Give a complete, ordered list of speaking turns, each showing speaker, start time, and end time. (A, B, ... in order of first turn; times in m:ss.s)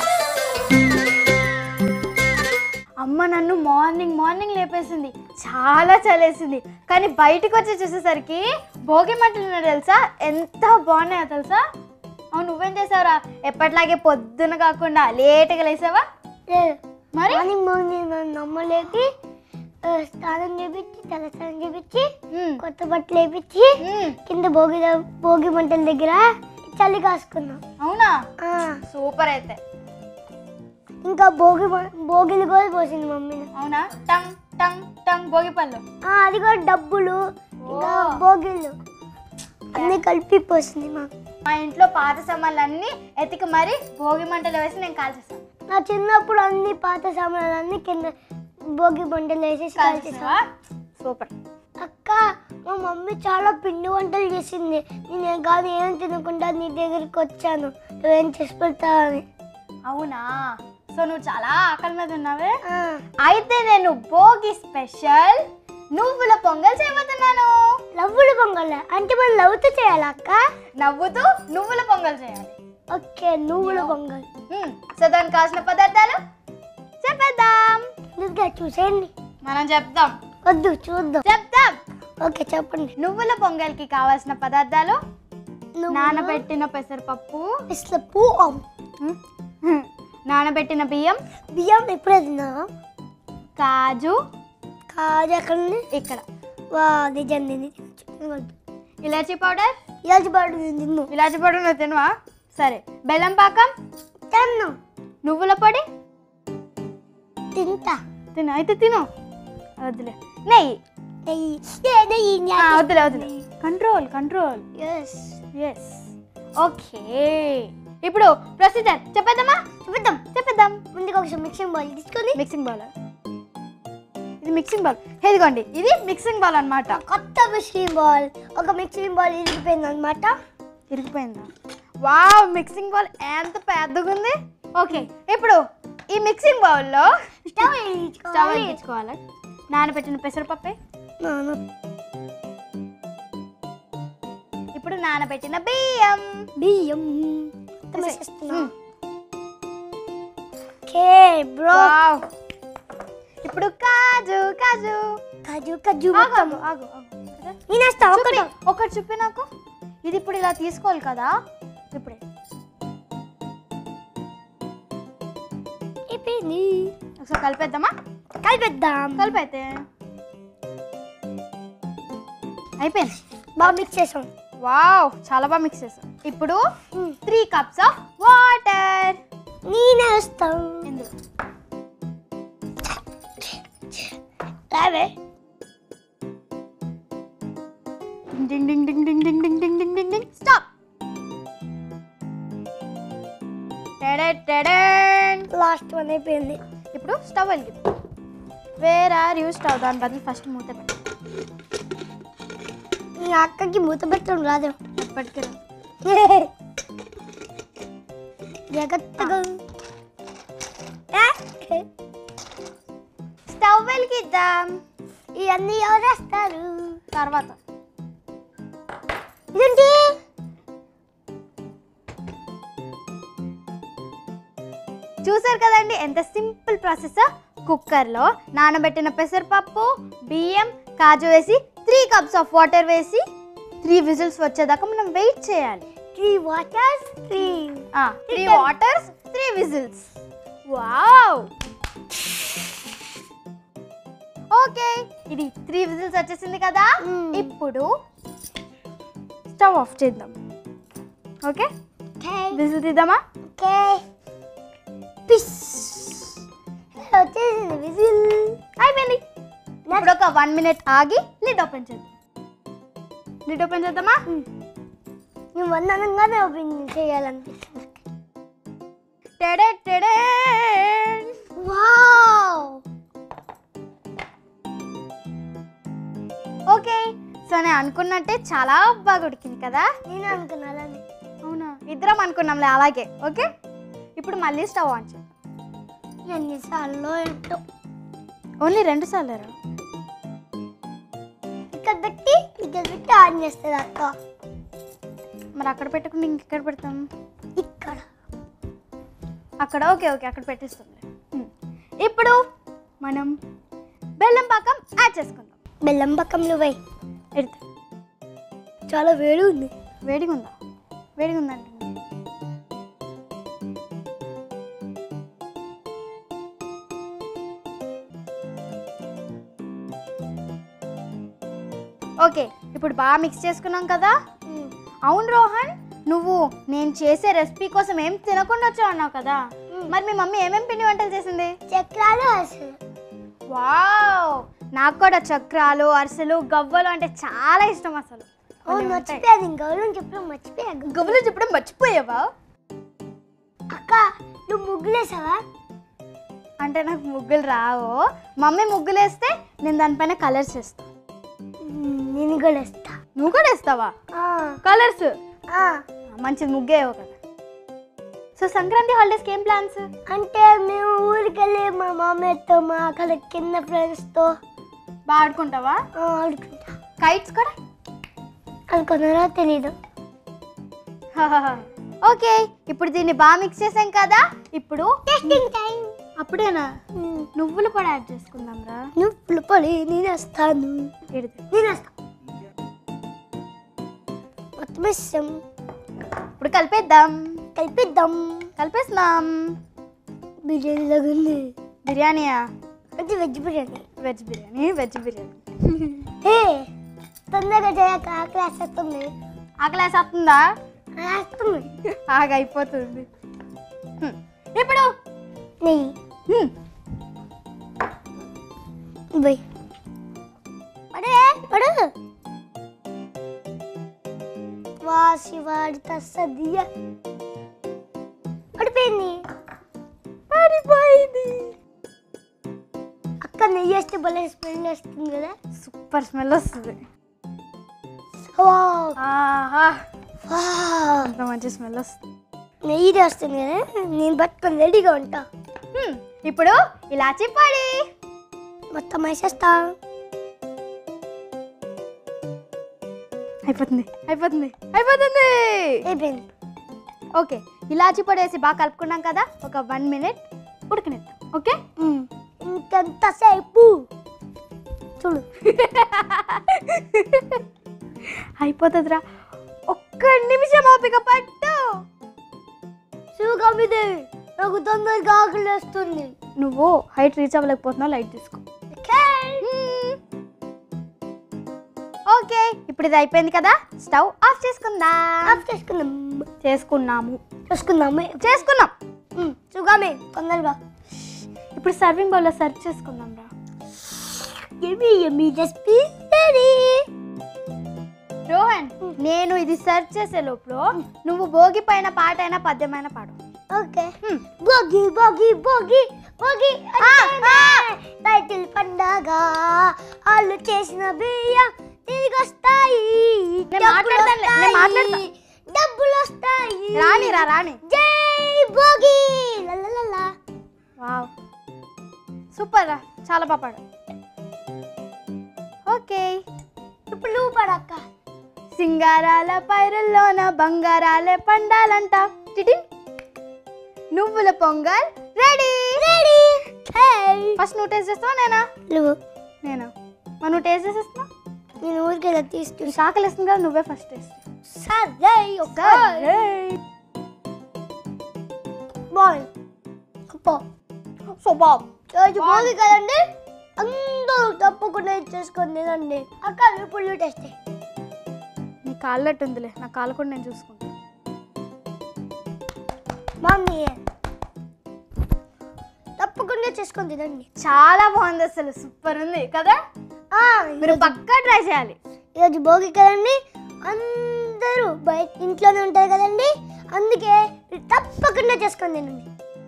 0:03.0-0:11.6 A
0:12.3-0:16.0 A
0:16.5-0:16.8 B
0:17.1-0:17.5 A
0:17.3-0:19.1 B
0:19.8-0:27.6 B
0:22.3-0:22.6 A
0:23.8-0:24.2 A
0:27.8-0:28.2 A
0:28.4-0:28.8 B
0:28.9-0:29.6 A
0:31.0-0:33.5 B
0:33.5-0:35.8 A
0:36.0-0:38.7 B
0:37.6-0:38.1 A
0:39.7-0:41.1 B
0:41.4-0:45.4 A
0:45.7-0:48.1 B
0:48.7-0:50.4 B
0:49.8-0:50.5 A
0:51.0-0:51.3 A
0:51.8-0:59.2 B
0:59.8-1:02.6 A
1:02.6-1:03.0 B
1:03.2-1:05.4 A
1:05.9-1:07.7 A
1:07.9-1:10.4 B
1:10.8-1:12.5 A
1:12.9-1:14.2 B
1:13.6-1:13.9 A
1:14.5-1:16.2 A
1:17.0-1:17.9 A
1:18.2-1:19.1 B
1:19.4-1:20.2 A
1:20.4-1:21.2 B
1:21.2-1:21.8 A
1:22.2-1:22.9 B
1:23.0-1:25.0 A
1:25.8-1:26.4 B
1:25.9-1:27.5 A
1:27.7-1:28.6 B
1:29.0-1:31.2 A
1:31.5-1:32.6 B
1:33.6-1:34.2 A
1:34.9-1:35.8 B
1:35.9-1:36.2 A
1:36.7-1:38.5 B
1:39.0-1:39.8 A
1:40.0-1:41.1 B
1:41.1-1:43.7 A
1:44.3-1:44.7 B
1:45.2-1:45.8 A
1:47.5-1:48.0 B
1:48.3-1:49.1 A
1:49.8-1:50.7 A
1:51.2-1:53.4 B
1:52.6-1:54.6 A
1:54.8-1:55.4 B
1:55.6-1:56.0 A
1:56.6-1:59.6 A
1:59.8-2:00.2 B
2:00.2-2:00.8 A
2:00.9-2:02.4 B
2:02.4-2:02.9 A
2:04.4-2:07.0 A
2:06.9-2:10.4 B
2:10.9-2:11.5 A
2:12.0-2:17.1 A
2:17.5-2:18.8 B
2:18.3-2:19.2 A
2:19.7-2:20.8 A
2:21.2-2:21.6 B
2:24.8-2:26.4 A
2:26.6-2:28.7 B
2:27.9-2:28.7 A
2:30.8-2:31.9 B
2:31.7-2:32.2 A
2:33.4-2:35.0 A
2:35.4-2:36.6 B
2:36.1-2:37.6 A
2:37.7-2:38.5 B
2:38.1-2:39.4 A
2:40.0-2:41.3 A
2:41.9-2:42.2 A
2:46.1-2:46.9 B
2:47.2-2:47.9 A
2:48.4-2:49.4 B
2:49.2-2:49.7 A
2:52.8-2:53.8 A
2:53.6-2:54.3 B
2:54.6-2:56.6 A
2:57.2-2:59.2 A
2:59.7-3:00.9 B
3:00.8-3:01.1 A
3:04.7-3:05.1 B
3:08.4-3:10.6 A
3:14.0-3:15.5 A
3:15.5-3:16.6 B
3:16.9-3:17.8 A
3:18.8-3:21.0 A
3:23.2-3:24.8 B
3:25.0-3:25.6 A
3:26.0-3:26.5 B
3:28.7-3:29.6 B
3:31.1-3:31.9 B
3:33.5-3:34.8 A
3:35.4-3:37.0 B
3:37.1-3:37.6 A
3:39.5-3:40.2 B
3:45.2-3:53.2 A
3:53.8-3:55.8 A
3:56.1-3:58.7 B
3:57.9-4:00.1 A
4:00.7-4:01.5 A
4:04.5-4:07.9 A
4:07.0-4:07.5 B
4:09.5-4:10.3 A
4:12.2-4:12.6 B
4:12.5-4:13.2 A
4:13.6-4:14.0 B
4:15.3-4:16.3 B
4:17.0-4:18.6 B
4:18.8-4:19.2 A
4:19.9-4:20.1 B
4:19.9-4:22.1 A
4:23.4-4:24.2 A
4:25.5-4:28.0 B
4:29.4-4:31.3 A
4:31.6-4:32.8 B
4:36.7-4:39.9 A
4:40.1-4:41.0 B
4:41.4-4:43.5 A
4:44.2-4:45.2 A
4:46.3-4:47.6 B
4:48.6-4:49.5 A
4:51.7-4:54.1 B
4:55.6-4:57.0 A
4:57.6-4:58.0 B
4:59.6-5:01.5 A
5:02.0-5:02.4 A
5:03.0-5:03.3 A
5:04.2-5:05.5 A
5:05.8-5:06.8 B
5:08.9-5:09.7 B
5:10.0-5:10.5 A
5:11.2-5:11.9 A
5:22.2-5:24.2 A
5:25.1-5:29.4 A
5:29.9-5:31.5 A
5:31.7-5:32.7 B
5:33.5-5:39.2 A
5:38.7-5:41.2 B
5:40.9-5:42.3 A
5:43.7-5:45.4 B
5:46.6-5:50.8 A
5:51.6-5:52.9 B
5:53.2-5:53.9 A
5:54.1-5:54.6 B
5:54.6-5:55.1 A
5:55.5-5:55.8 B
5:56.1-5:57.1 A
5:58.4-5:59.9 A
6:00.1-6:04.3 B
6:05.1-6:05.8 A
6:06.0-6:06.7 B
6:07.0-6:07.5 A
6:08.7-6:09.7 B
6:11.2-6:15.4 A
6:15.1-6:16.0 B
6:16.2-6:16.7 A
6:17.0-6:17.3 B
6:17.4-6:18.8 A
6:19.0-6:20.9 B
6:21.1-6:21.4 A
6:21.5-6:21.9 B
6:24.6-6:25.3 B
6:26.4-6:27.4 A
6:27.6-6:28.5 B
6:28.6-6:29.6 A
6:30.4-6:31.5 B
6:31.8-6:32.4 A
6:33.0-6:33.8 B
6:34.0-6:36.1 A
6:36.2-6:36.7 B
6:37.3-6:39.1 B
6:39.6-6:40.4 A
6:41.0-6:41.7 B
6:41.9-6:43.1 A
6:44.0-6:44.9 A
6:45.6-6:45.9 B
6:49.1-6:49.4 B
6:50.9-6:51.9 B
6:54.8-6:56.7 B
6:58.6-6:59.2 B
7:00.3-7:01.5 A
7:03.2-7:05.3 B
7:05.6-7:06.8 A
7:08.4-7:09.0 B
7:09.0-7:09.8 A
7:10.2-7:11.1 B
7:11.0-7:12.0 A
7:12.6-7:15.3 B
7:15.7-7:17.8 A
7:18.7-7:19.7 B
7:23.4-7:25.8 A
7:25.8-7:26.3 B
7:27.2-7:31.6 A
7:31.8-7:33.9 B
7:35.0-7:35.2 B
7:35.4-7:37.4 A
7:38.0-7:39.0 A
7:39.7-7:41.7 A
7:43.2-7:46.1 B
7:46.4-7:48.4 A
7:48.7-7:49.4 B
7:49.4-7:50.0 A
7:52.1-7:55.4 A
7:55.2-7:56.3 B
7:56.4-7:57.2 A
7:57.5-7:58.4 B
7:58.2-7:58.7 A
7:59.2-8:00.6 B
8:01.5-8:03.3 A
8:04.6-8:06.8 B
8:08.3-8:13.1 A
8:13.5-8:30.1 B
8:16.8-8:17.6 A
8:23.5-8:25.0 A
8:26.8-8:27.6 A
8:30.8-8:31.1 A
8:32.3-8:33.6 A
8:35.7-8:36.2 A
8:36.9-8:37.8 B
8:38.5-8:42.6 A
8:43.9-8:45.8 A
8:45.8-8:47.4 B
8:47.4-8:48.5 A
8:48.7-8:49.0 B
8:49.4-8:49.7 A
8:50.2-8:51.1 A
8:51.6-8:52.8 B
8:52.7-8:54.2 A
8:54.4-8:56.2 B
8:55.5-8:56.6 A
8:58.9-8:59.3 B
9:00.1-9:00.4 B
9:01.1-9:01.6 A
9:01.9-9:03.0 B
9:02.2-9:02.6 A
9:03.6-9:07.3 B
9:08.6-9:10.7 A
9:13.2-9:13.8 B
9:16.0-9:17.3 B
9:17.4-9:19.6 A
9:20.1-9:21.0 B
9:20.6-9:21.8 A
9:22.2-9:29.1 B